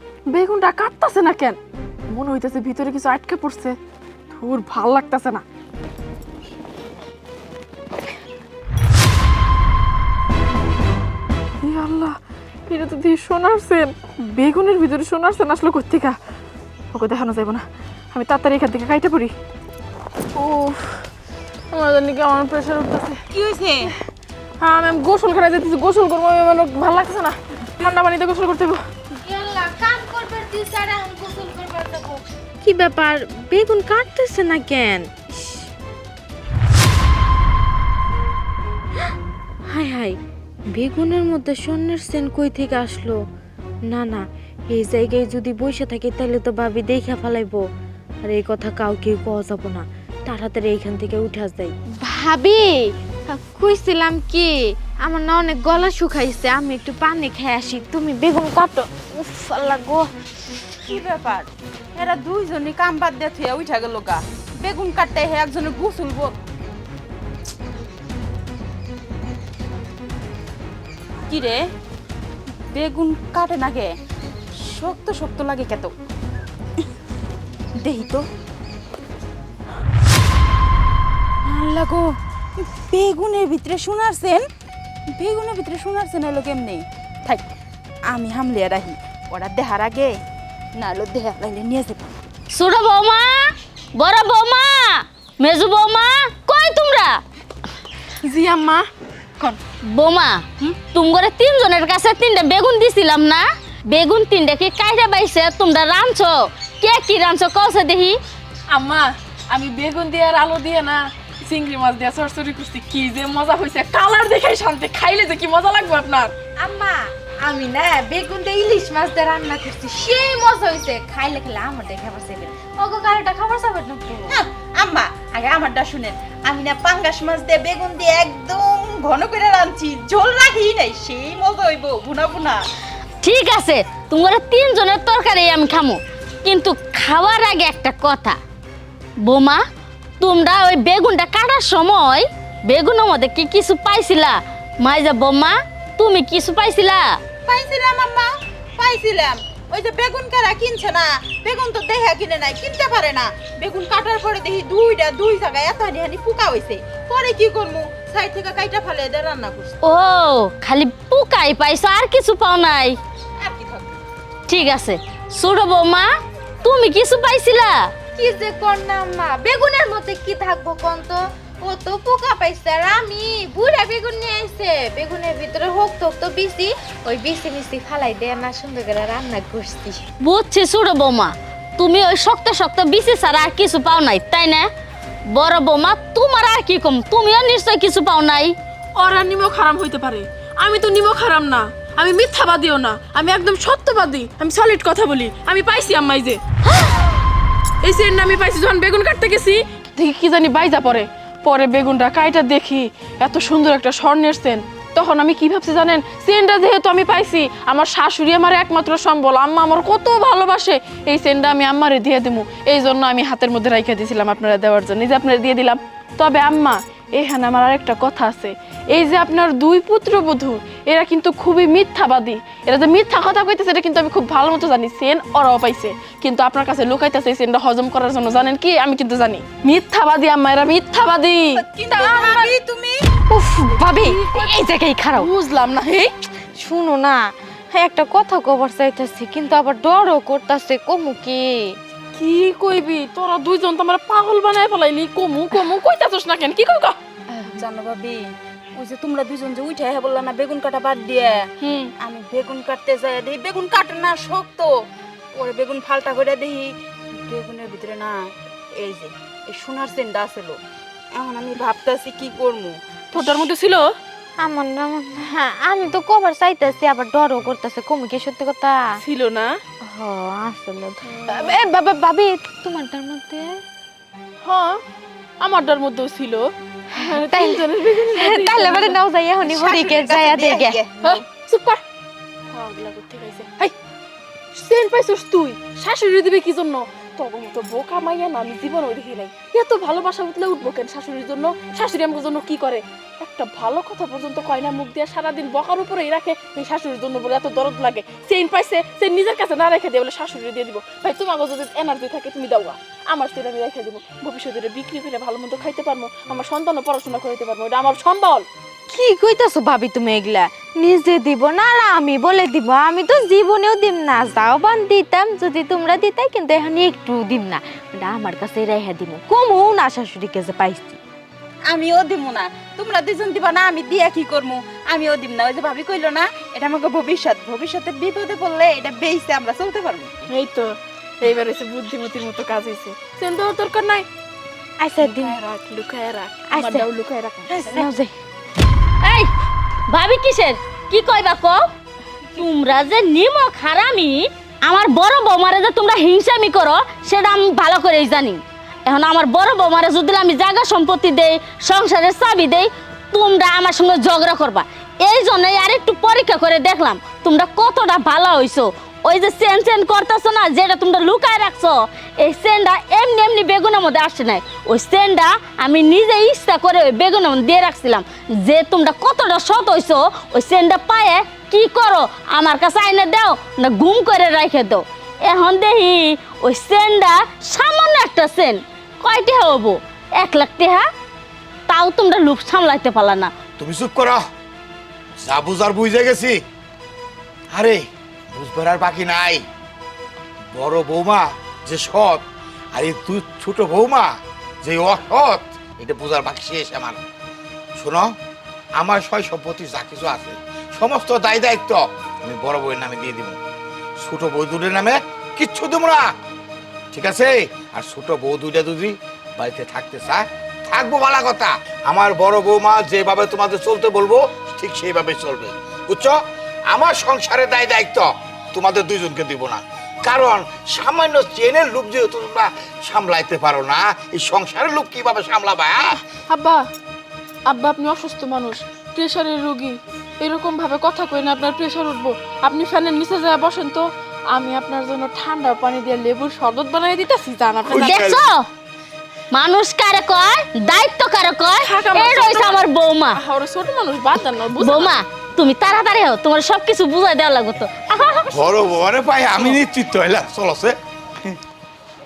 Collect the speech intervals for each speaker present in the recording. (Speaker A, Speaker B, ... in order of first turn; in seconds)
Speaker A: 0.3-1.6, 2.1-3.8, 4.3-5.4, 11.6-16.2, 16.9-19.3, 20.3-21.1, 21.7-23.2, 24.6-28.8, 98.2-98.9, 108.7-116.3, 188.9-196.4, 197.8-232.6, 233.7-236.1, 242.1-247.0, 251.6-251.9, 263.1-263.9, 269.0-269.5, 271.0-271.6, 274.4-274.8, 275.4-279.0, 281.0-281.8, 282.5-283.7, 284.6-308.5, 330.3-334.1, 335.0-337.9, 426.1-426.6, 427.5-438.2, 441.6-444.9
Speaker B: 23.3-23.9, 60.8-66.3, 71.3-71.6, 72.7-73.9, 74.6-75.9, 77.8-78.2, 81.4-84.4, 85.1-87.5, 88.1-90.2, 90.8-92.1, 124.3-132.6, 147.4-159.8, 163.4-164.0, 231.5-233.0, 247.5-248.2, 248.8-251.4, 252.0-254.7, 255.3-260.6, 261.1-262.8, 279.4-281.2, 321.7-330.3
Speaker C: 29.2-35.6, 39.7-40.1, 40.7-43.1, 43.9-47.6, 48.3-52.7, 53.3-60.0, 116.6-124.4, 168.2-180.0, 233.3-235.3, 236.6-241.5, 264.4-268.8, 269.9-273.6, 277.0-280.8, 308.9-321.0, 334.8-335.3, 337.6-338.1
Speaker D: 92.5-97.2, 99.8-108.2, 133.2-138.4, 139.2-139.6, 140.2-147.2, 159.8-162.9, 164.5-166.1, 166.6-167.9, 180.2-184.7, 185.3-188.5, 339.0-339.3, 339.9-341.6, 342.3-380.9, 381.7-383.3, 437.8-438.4, 439.3-443.2, 444.6-448.4
Speaker E: 383.6-384.2, 385.2-386.4, 387.5-389.4, 390.5-392.2, 392.7-397.0, 397.8-398.1, 398.8-403.4, 404.0-406.1, 406.9-416.2, 416.7-426.0, 437.7-438.2, 448.3-451.4